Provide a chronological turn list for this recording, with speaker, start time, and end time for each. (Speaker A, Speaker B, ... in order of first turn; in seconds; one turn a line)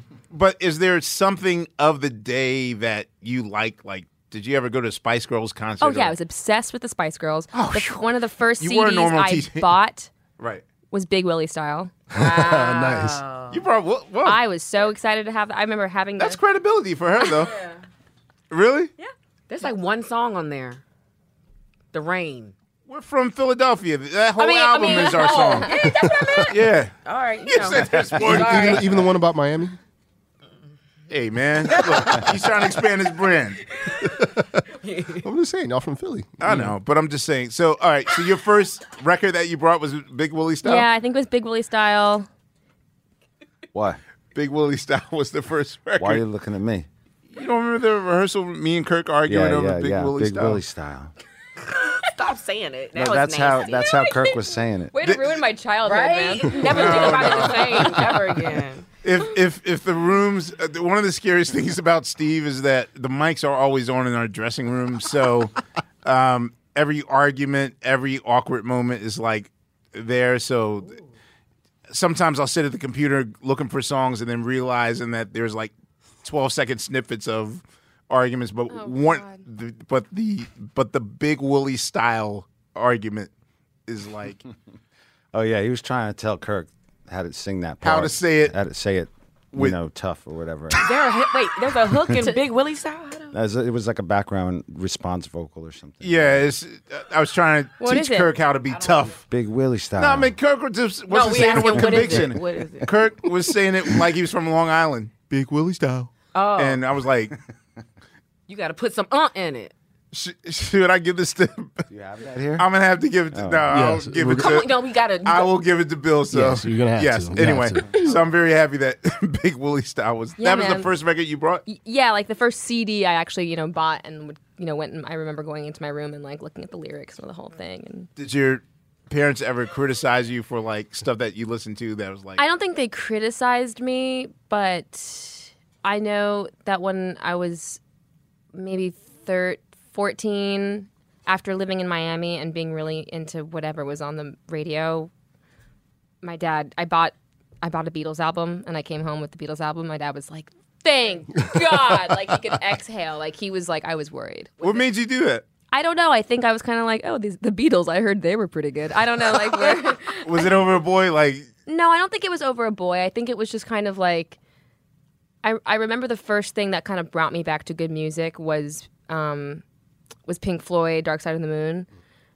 Speaker A: 0.3-6.2
Speaker B: 5.8-10.1
Speaker A: 7.5-8.1
Speaker A: 8.6-9.8
Speaker B: 10.9-11.9
Speaker C: 12.1-13.2
Speaker D: 12.1-13.6
Speaker A: 13.5-14.4
Speaker B: 14.2-16.4
Speaker A: 16.2-17.5
Speaker D: 17.5-17.8
Speaker A: 18.5-18.9
Speaker D: 19.5-20.8
Speaker D: 21.9-22.5
Speaker A: 22.9-25.7
Speaker D: 24.4-28.9
Speaker B: 24.9-26.5
Speaker A: 26.5-28.9
Speaker C: 28.2-29.8
Speaker A: 31.1-33.6
Speaker D: 31.7-32.3
Speaker D: 33.8-34.1
Speaker C: 34.0-34.6
Speaker D: 34.8-35.2
Speaker C: 35.2-36.7
Speaker A: 36.4-40.9
Speaker B: 40.6-42.3
Speaker E: 43.7-44.0
Speaker A: 44.4-46.2
Speaker E: 46.0-46.9
Speaker A: 47.3-50.6
Speaker E: 49.3-51.1
Speaker D: 51.8-54.1
Speaker E: 53.0-55.0
Speaker B: 54.9-58.1
Speaker A: 55.0-55.4
Speaker D: 55.8-58.9
Speaker A: 56.6-58.0
Speaker A: 59.0-71.0
Speaker A: 71.9-75.7
Speaker A: 76.2-83.3
Speaker B: 78.7-79.4
Speaker A: 83.9-84.4
Speaker E: 85.3-90.8
Speaker A: 87.8-88.5
Speaker D: 90.8-93.3
Speaker E: 93.3-96.5
Speaker A: 96.0-99.2
Speaker B: 97.8-98.3
Speaker D: 98.7-99.1
Speaker E: 99.3-100.4
Speaker A: 100.0-105.3
Speaker D: 101.1-102.9
Speaker C: 105.3-106.1
Speaker D: 106.3-106.8
Speaker A: 106.6-107.3
Speaker D: 108.5-109.7
Speaker A: 110.1-111.9
Speaker E: 111.9-112.7
Speaker A: 112.6-121.6
Speaker E: 113.3-113.7
Speaker C: 113.7-114.6
Speaker D: 114.3-115.5
Speaker C: 116.3-117.9
Speaker B: 120.4-120.9
Speaker B: 121.7-128.1
Speaker A: 128.2-132.4
Speaker B: 132.4-137.8
Speaker B: 138.5-145.1
Speaker B: 146.2-154.8
Speaker A: 154.6-155.4
Speaker B: 155.7-160.6
Speaker A: 159.5-161.5
Speaker B: 161.7-164.4
Speaker B: 165.4-169.6
Speaker B: 170.3-171.9